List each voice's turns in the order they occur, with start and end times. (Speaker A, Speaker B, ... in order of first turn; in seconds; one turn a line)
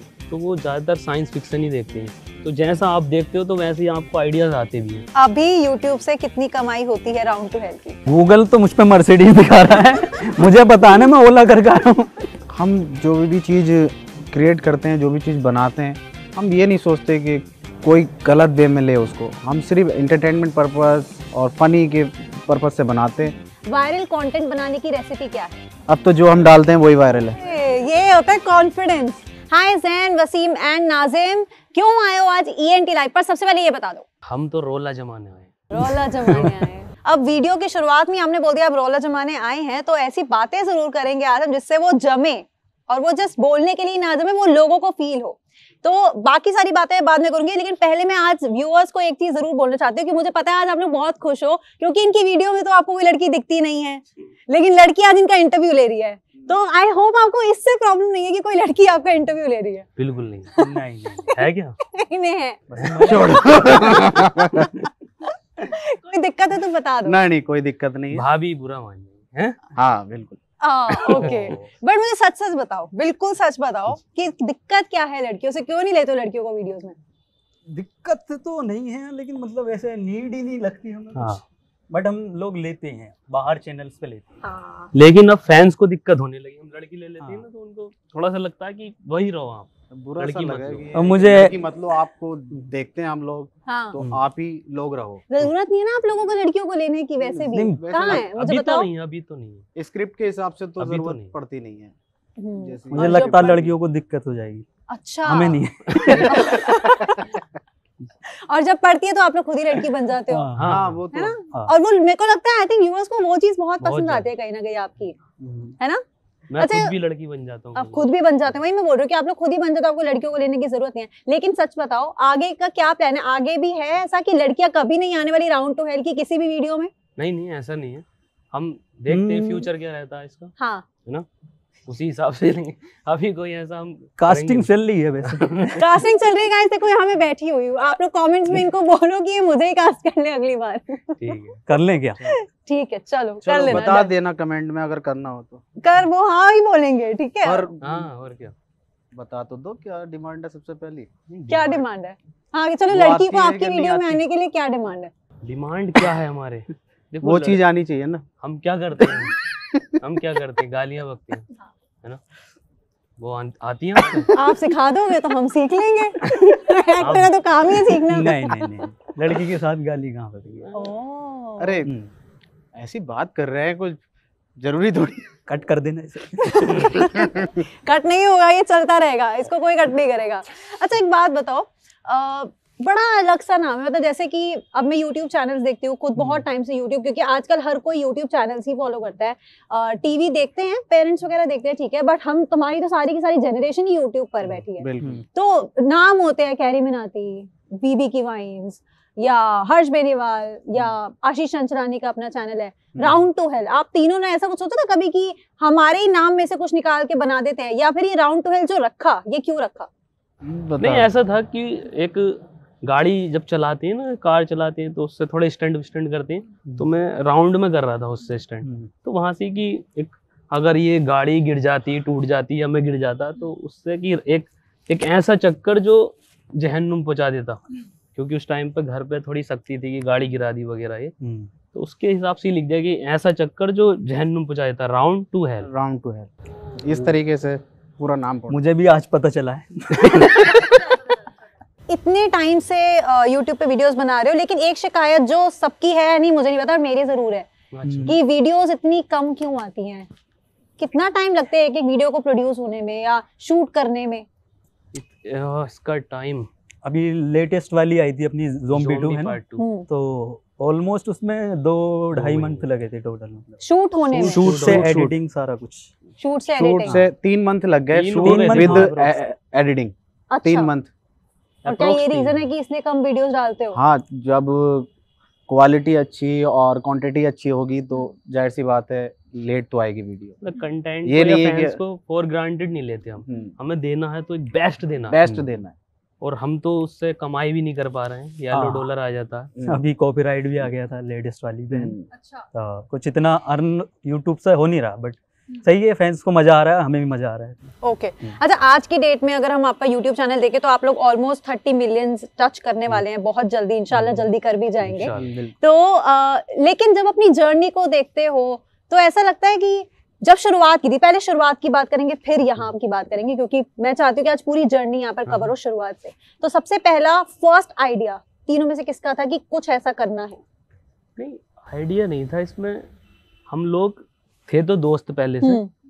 Speaker A: 0.3-5.0
Speaker B: 5.2-8.0
Speaker C: 8.1-12.3
Speaker D: 12.5-23.3
Speaker B: 23.7-25.6
Speaker D: 25.9-27.4
Speaker B: 27.3-34.0
Speaker A: 34.2-36.6
Speaker B: 35.7-59.9
Speaker A: 60.0-60.5
Speaker C: 60.5-61.3
Speaker B: 60.5-61.3
Speaker A: 61.3-61.8
Speaker B: 61.8-64.3
Speaker C: 62.7-63.9
Speaker A: 62.8-63.1
Speaker D: 63.0-64.7
Speaker B: 65.6-67.2
Speaker D: 67.0-68.2
Speaker A: 68.1-69.7
Speaker D: 69.7-70.4
Speaker B: 70.6-77.0
Speaker C: 71.0-71.7
Speaker A: 71.1-71.6
Speaker C: 77.7-84.2
Speaker A: 81.1-81.4
Speaker B: 84.4-84.9
Speaker A: 84.9-91.1
Speaker D: 89.9-95.3
Speaker C: 90.9-91.6
Speaker B: 93.7-94.0
Speaker B: 95.3-98.9
Speaker D: 97.3-98.2
Speaker C: 97.5-97.9
Speaker A: 98.1-99.7
Speaker D: 99.8-102.0
Speaker A: 100.8-101.3
Speaker B: 102.4-103.7
Speaker D: 102.6-103.6
Speaker C: 102.9-104.7
Speaker B: 104.9-105.6
Speaker C: 105.2-106.9
Speaker A: 105.9-106.4
Speaker B: 106.2-107.3
Speaker B: 108.2-110.5
Speaker C: 110.3-111.7
Speaker A: 110.5-111.0
Speaker D: 110.7-111.3
Speaker B: 111.1-115.2
Speaker A: 113.8-114.3
Speaker C: 115.4-115.8
Speaker A: 116.5-118.1
Speaker B: 116.6-116.9
Speaker B: 117.7-126.9
Speaker A: 127.2-130.5
Speaker C: 129.1-129.7
Speaker B: 130.6-130.8
Speaker A: 131.9-134.7
Speaker C: 134.2-135.8
Speaker A: 135.2-135.8
Speaker B: 135.8-141.4
Speaker A: 141.2-141.6
Speaker C: 141.7-142.4
Speaker B: 142.2-144.1
Speaker D: 143.4-145.6
Speaker B: 145.8-147.7
Speaker D: 147.4-148.1
Speaker A: 147.8-148.5
Speaker D: 149.1-151.1
Speaker A: 151.3-151.8
Speaker B: 151.5-155.1
Speaker D: 152.9-154.2
Speaker A: 155.4-157.7
Speaker D: 157.2-158.2
Speaker A: 158.4-159.4
Speaker D: 159.5-159.8
Speaker A: 160.0-161.5
Speaker A: 163.2-164.3
Speaker B: 164.3-168.7
Speaker A: 167.0-167.4
Speaker C: 167.8-170.7
Speaker A: 170.6-170.9
Speaker B: 170.7-171.8
Speaker D: 171.6-171.9
Speaker C: 171.8-172.1
Speaker D: 172.8-174.0
Speaker D: 174.6-175.3
Speaker C: 175.5-177.0
Speaker B: 176.4-209.9
Speaker D: 177.1-177.4
Speaker D: 194.4-195.2
Speaker D: 210.4-211.1
Speaker A: 210.8-231.1
Speaker C: 218.6-218.9
Speaker C: 231.2-231.5
Speaker A: 231.7-235.7
Speaker D: 235.6-238.6
Speaker C: 238.5-240.9
Speaker B: 241.9-247.5
Speaker A: 247.7-248.2
Speaker C: 247.8-248.2
Speaker B: 248.1-250.1
Speaker B: 250.8-254.2
Speaker A: 254.9-256.5
Speaker C: 256.8-265.9
Speaker A: 258.7-259.6
Speaker B: 259.6-259.9
Speaker A: 262.1-262.7
Speaker B: 263.6-264.4
Speaker A: 264.1-265.1
Speaker B: 266.2-267.0
Speaker D: 266.5-270.9
Speaker A: 267.9-269.2
Speaker C: 268.2-268.9
Speaker B: 270.3-270.7
Speaker A: 271.6-272.5
Speaker B: 271.6-273.8
Speaker D: 273.7-274.9
Speaker D: 275.5-280.4
Speaker A: 280.4-285.3
Speaker D: 281.0-281.8
Speaker D: 283.2-283.5
Speaker D: 285.1-285.8
Speaker C: 285.2-285.5
Speaker A: 286.2-289.5
Speaker C: 288.5-288.9
Speaker D: 289.6-289.8
Speaker C: 289.6-291.9
Speaker D: 291.7-292.1
Speaker B: 292.1-292.4
Speaker C: 292.5-297.7
Speaker B: 297.8-320.4
Speaker C: 303.9-304.3
Speaker A: 304.9-305.3
Speaker C: 305.0-305.5
Speaker A: 315.3-315.5
Speaker A: 321.2-322.9
Speaker A: 323.5-325.6
Speaker B: 325.4-325.7